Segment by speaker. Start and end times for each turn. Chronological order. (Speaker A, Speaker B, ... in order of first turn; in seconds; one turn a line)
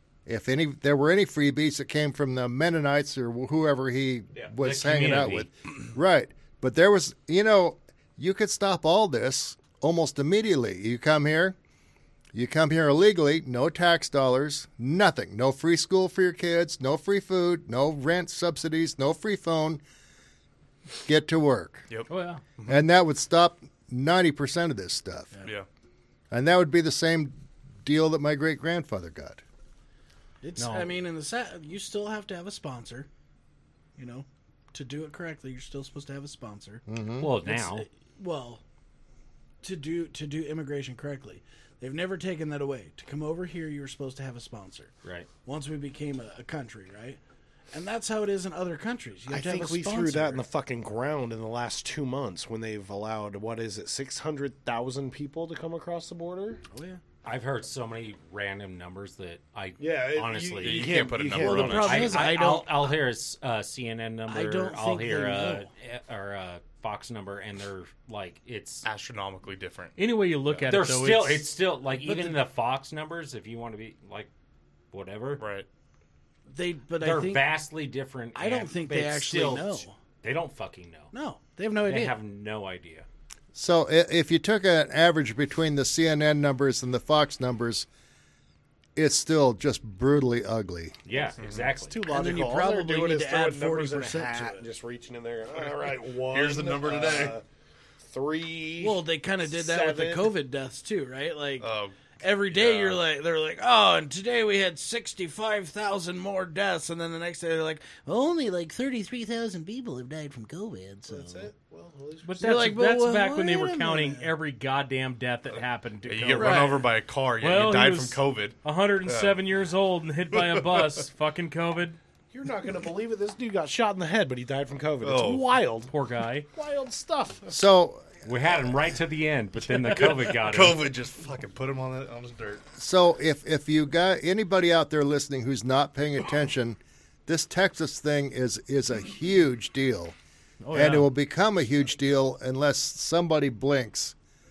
Speaker A: 0.2-11.5
Speaker B: 4.4-5.5
Speaker A: 12.3-19.8
Speaker A: 21.1-21.9
Speaker C: 21.9-22.8
Speaker D: 22.1-22.4
Speaker A: 22.7-25.3
Speaker A: 26.3-29.4
Speaker E: 30.4-33.1
Speaker D: 30.6-30.9
Speaker E: 34.0-36.8
Speaker A: 36.9-37.3
Speaker B: 37.2-37.9
Speaker E: 37.4-38.6
Speaker E: 39.6-44.9
Speaker E: 45.4-47.2
Speaker E: 47.7-50.4
Speaker F: 49.3-56.6
Speaker E: 56.7-57.0
Speaker B: 57.2-68.8
Speaker F: 59.8-62.2
Speaker C: 60.6-62.1
Speaker E: 61.4-63.0
Speaker E: 64.3-65.7
Speaker C: 68.8-70.0
Speaker D: 70.0-71.5
Speaker B: 70.7-74.3
Speaker E: 72.0-72.4
Speaker B: 74.9-75.4
Speaker C: 75.4-75.7
Speaker E: 76.5-77.4
Speaker B: 77.0-81.1
Speaker E: 78.3-80.0
Speaker E: 81.1-82.1
Speaker B: 81.8-83.0
Speaker A: 83.5-87.9
Speaker A: 89.0-91.0
Speaker B: 91.0-92.0
Speaker C: 91.4-91.8
Speaker F: 91.8-97.4
Speaker E: 92.1-94.6
Speaker C: 95.6-97.3
Speaker F: 98.0-100.3
Speaker E: 98.8-111.5
Speaker C: 101.6-102.0
Speaker C: 102.5-103.0
Speaker F: 111.1-112.4
Speaker D: 112.2-116.8
Speaker E: 112.4-114.3
Speaker C: 116.0-119.4
Speaker E: 116.3-116.9
Speaker D: 117.4-122.0
Speaker C: 120.3-121.0
Speaker F: 122.3-125.9
Speaker C: 125.0-125.5
Speaker D: 125.9-126.5
Speaker F: 126.5-127.6
Speaker A: 127.5-128.1
Speaker B: 128.2-130.8
Speaker C: 130.0-132.6
Speaker A: 132.8-140.2
Speaker D: 140.6-141.1
Speaker A: 140.7-144.2